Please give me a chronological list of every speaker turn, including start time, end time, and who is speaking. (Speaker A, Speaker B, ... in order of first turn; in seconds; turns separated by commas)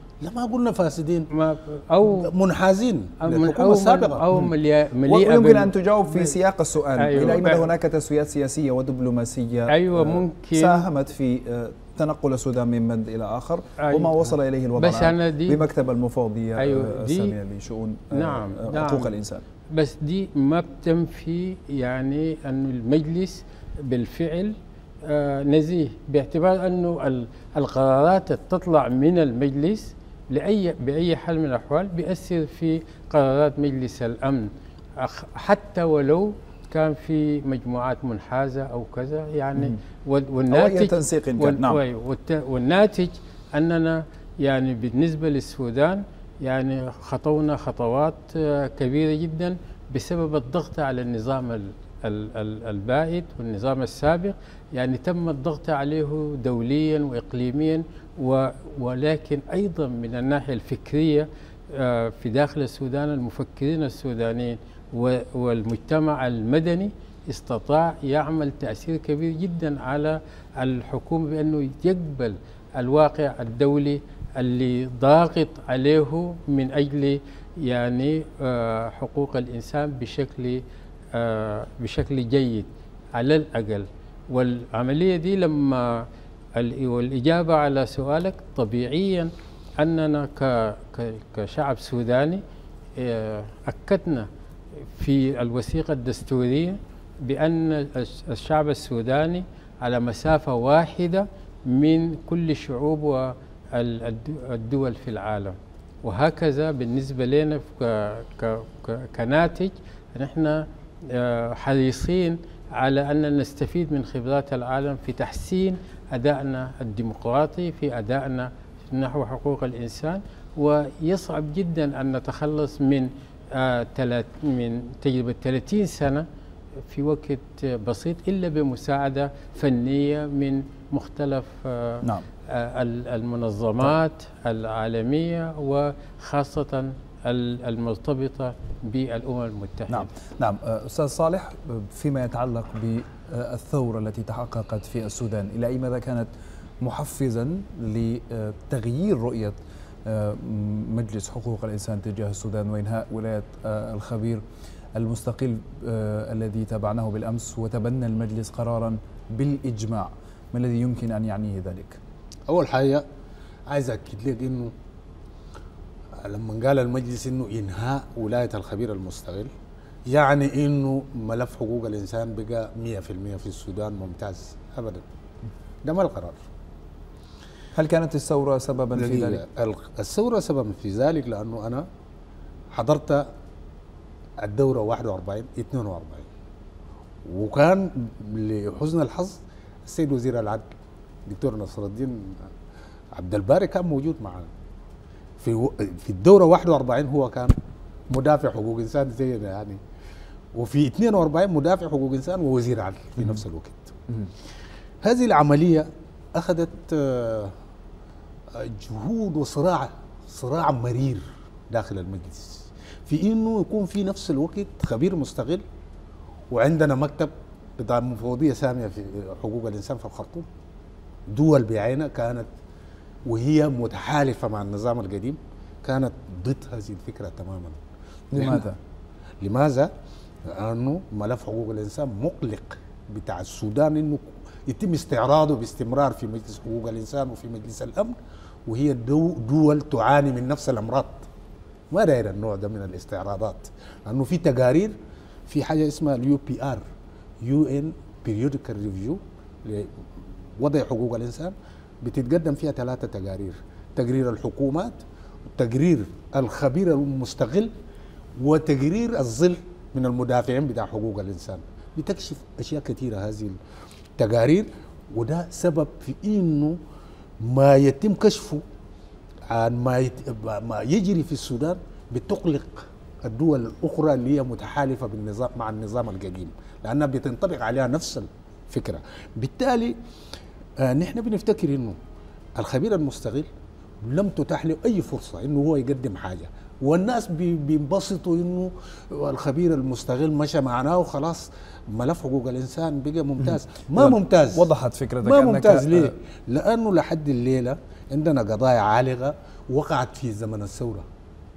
Speaker A: 0.2-1.3, Speaker B: 1.3-2.3, Speaker A: 2.0-4.2, Speaker B: 3.2-6.3, Speaker C: 5.1-19.4, Speaker B: 7.0-7.7, Speaker B: 9.7-10.8, Speaker B: 13.8-15.6, Speaker B: 16.6-17.4, Speaker B: 18.1-19.1, Speaker B: 19.7-80.6, Speaker C: 40.5-41.8, Speaker B: 81.1-92.4, Speaker B: 93.0-94.3, Speaker B: 94.9-126.3, Speaker B: 126.9-140.1, Speaker C: 139.9-146.3, Speaker C: 146.8-154.4, Speaker C: 155.0-162.0, Speaker A: 162.5-163.1, Speaker A: 163.7-164.7, Speaker A: 166.2-169.5, Speaker A: 170.1-175.1, Speaker A: 175.8-176.4, Speaker C: 177.7-179.4, Speaker A: 178.9-181.9, Speaker A: 182.7-183.3, Speaker A: 184.4-186.3, Speaker A: 187.3-190.7, Speaker A: 191.3-192.4, Speaker A: 193.2-194.5, Speaker A: 195.4-197.6, Speaker A: 198.1-199.8, Speaker A: 200.5-204.0, Speaker A: 205.0-207.6, Speaker A: 208.5-215.6, Speaker A: 216.5-220.5, Speaker A: 221.3-222.5, Speaker A: 223.3-227.8, Speaker C: 228.3-228.8, Speaker A: 228.3-228.7, Speaker A: 229.4-229.9, Speaker A: 230.4-241.3, Speaker A: 241.9-244.9, Speaker A: 245.5-246.8, Speaker A: 247.4-249.9, Speaker A: 250.6-255.0, Speaker A: 255.6-257.7, Speaker A: 258.4-263.6, Speaker A: 264.2-266.8, Speaker A: 267.4-268.6, Speaker A: 269.5-279.9, Speaker A: 280.8-282.0, Speaker A: 282.6-283.5, Speaker A: 284.0-294.6, Speaker C: 293.4-296.1, Speaker A: 295.2-301.1